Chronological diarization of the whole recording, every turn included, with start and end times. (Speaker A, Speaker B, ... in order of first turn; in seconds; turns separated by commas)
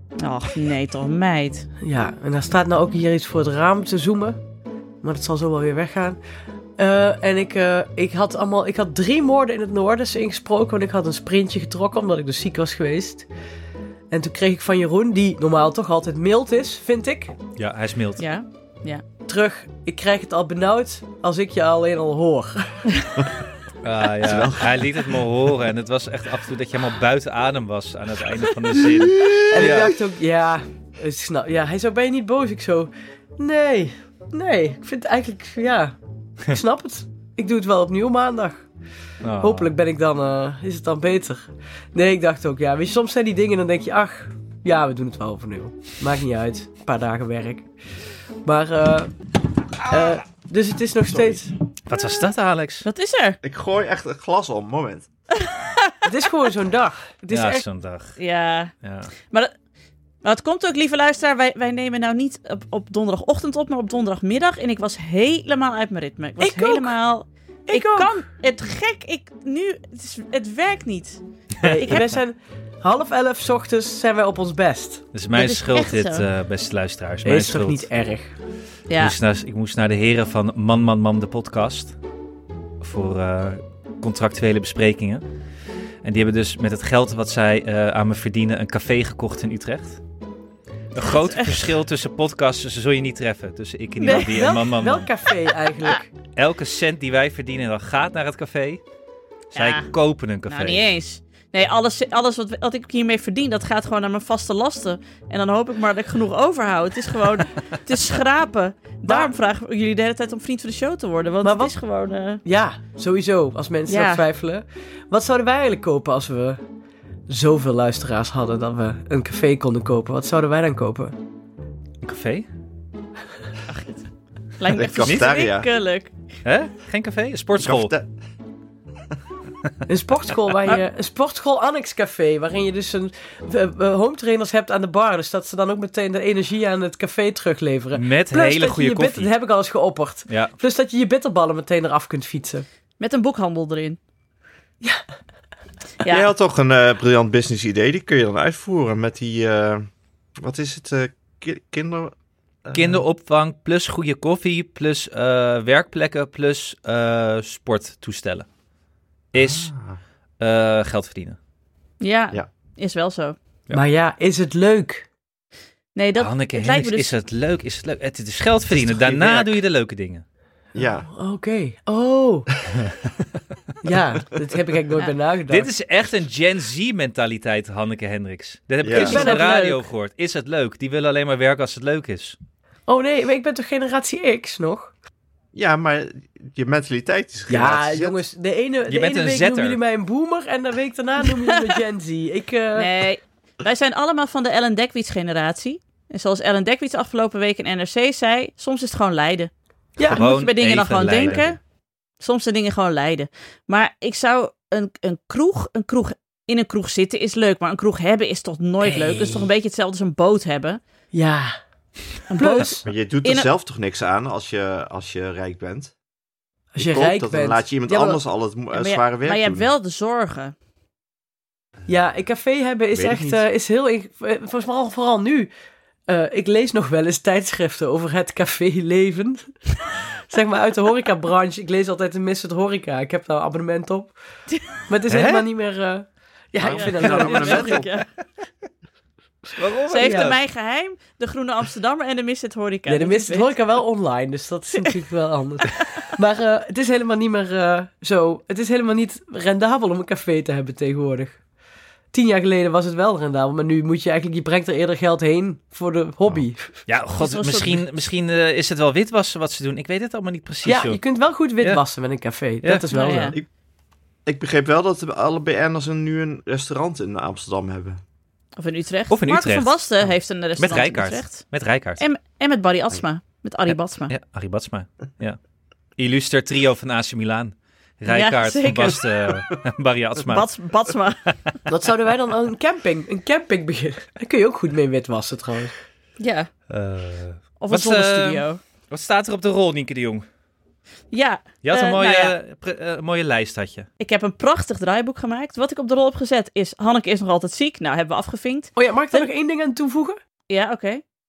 Speaker A: 0.2-1.7, Speaker B: 1.8-4.4, Speaker B: 5.0-6.2, Speaker B: 6.8-13.2, Speaker B: 14.1-17.3, Speaker C: 17.6-18.2, Speaker A: 18.2-19.0, Speaker B: 19.2-22.9, Speaker C: 23.8-29.9, Speaker D: 24.2-25.0, Speaker D: 29.1-29.8, Speaker B: 29.5-38.7, Speaker C: 39.2-39.7, Speaker B: 39.4-47.7, Speaker B: 48.5-49.1, Speaker B: 49.8-51.5, Speaker C: 51.9-52.9, Speaker A: 52.8-53.4, Speaker D: 53.4-55.1, Speaker A: 55.4-56.0, Speaker B: 56.0-57.6, Speaker C: 57.3-58.2, Speaker A: 58.2-58.7, Speaker C: 58.8-59.1, Speaker A: 60.2-71.2, Speaker B: 66.4-66.9, Speaker B: 67.7-68.2, Speaker B: 71.6-75.1, Speaker C: 71.6-72.0, Speaker C: 75.1-77.9, Speaker A: 75.3-76.3, Speaker B: 77.2-78.3, Speaker A: 78.9-79.2, Speaker C: 79.0-82.0, Speaker C: 82.8-85.2, Speaker C: 86.0-90.0, Speaker C: 90.9-95.1, Speaker A: 91.0-91.7, Speaker A: 94.0-94.5, Speaker B: 94.0-96.1, Speaker C: 96.4-98.8, Speaker C: 99.5-100.8, Speaker A: 99.6-99.9, Speaker A: 100.5-112.4, Speaker B: 109.1-109.3, Speaker B: 111.4-111.8, Speaker B: 112.4-116.6, Speaker A: 113.9-114.2, Speaker B: 117.3-121.2, Speaker C: 122.0-122.5, Speaker A: 123.7-124.0, Speaker A: 124.6-126.1, Speaker D: 124.7-125.7, Speaker C: 126.5-127.9, Speaker D: 127.6-128.1, Speaker B: 129.9-142.7, Speaker C: 137.9-139.3, Speaker C: 140.3-140.5, Speaker A: 143.0-144.0, Speaker A: 146.0-146.3, Speaker D: 146.1-149.8, Speaker D: 150.4-153.0, Speaker C: 152.7-158.5, Speaker C: 159.3-159.7, Speaker D: 159.3-160.0, Speaker C: 160.4-161.4, Speaker A: 162.0-163.3, Speaker B: 163.7-165.1, Speaker A: 165.9-167.1, Speaker C: 166.2-170.2, Speaker D: 168.8-169.6, Speaker D: 170.8-171.1, Speaker B: 170.8-172.5, Speaker B: 173.8-175.7, Speaker C: 175.5-182.3, Speaker D: 178.8-179.2, Speaker B: 178.9-179.8, Speaker B: 182.9-184.9, Speaker D: 185.5-188.2, Speaker B: 187.5-192.9, Speaker C: 188.9-189.8, Speaker A: 192.7-199.5, Speaker C: 200.0-201.4, Speaker A: 200.1-201.6, Speaker D: 201.2-201.6, Speaker A: 202.2-210.8, Speaker B: 208.8-209.5, Speaker B: 211.1-211.6, Speaker A: 212.3-213.5, Speaker B: 212.3-212.8, Speaker D: 212.8-215.9, Speaker B: 216.7-218.2, Speaker D: 216.8-219.7, Speaker A: 218.7-220.5, Speaker B: 221.9-225.5, Speaker D: 222.9-223.4, Speaker B: 226.1-229.5, Speaker B: 230.3-234.1, Speaker A: 234.5-234.8, Speaker B: 234.7-237.8, Speaker C: 235.1-235.5, Speaker D: 236.6-238.0, Speaker A: 236.6-238.1, Speaker C: 239.6-240.4, Speaker A: 239.9-243.5, Speaker B: 240.0-240.3, Speaker B: 242.9-251.4, Speaker B: 252.1-256.9, Speaker C: 256.9-261.0, Speaker A: 257.2-257.9, Speaker B: 260.6-263.4, Speaker C: 262.6-262.9, Speaker A: 262.9-263.4, Speaker D: 264.2-268.0, Speaker A: 268.6-271.4, Speaker C: 269.1-269.8, Speaker C: 270.6-272.0, Speaker A: 272.0-274.1, Speaker C: 274.1-275.4, Speaker C: 276.0-280.5, Speaker A: 278.1-279.1, Speaker A: 280.3-281.3, Speaker B: 281.7-285.7, Speaker A: 286.2-286.5, Speaker C: 286.7-290.2, Speaker A: 287.6-288.6, Speaker A: 291.1-292.3, Speaker C: 291.6-293.9, Speaker A: 294.0-299.3, Speaker B: 298.8-300.2, Speaker A: 300.5-301.0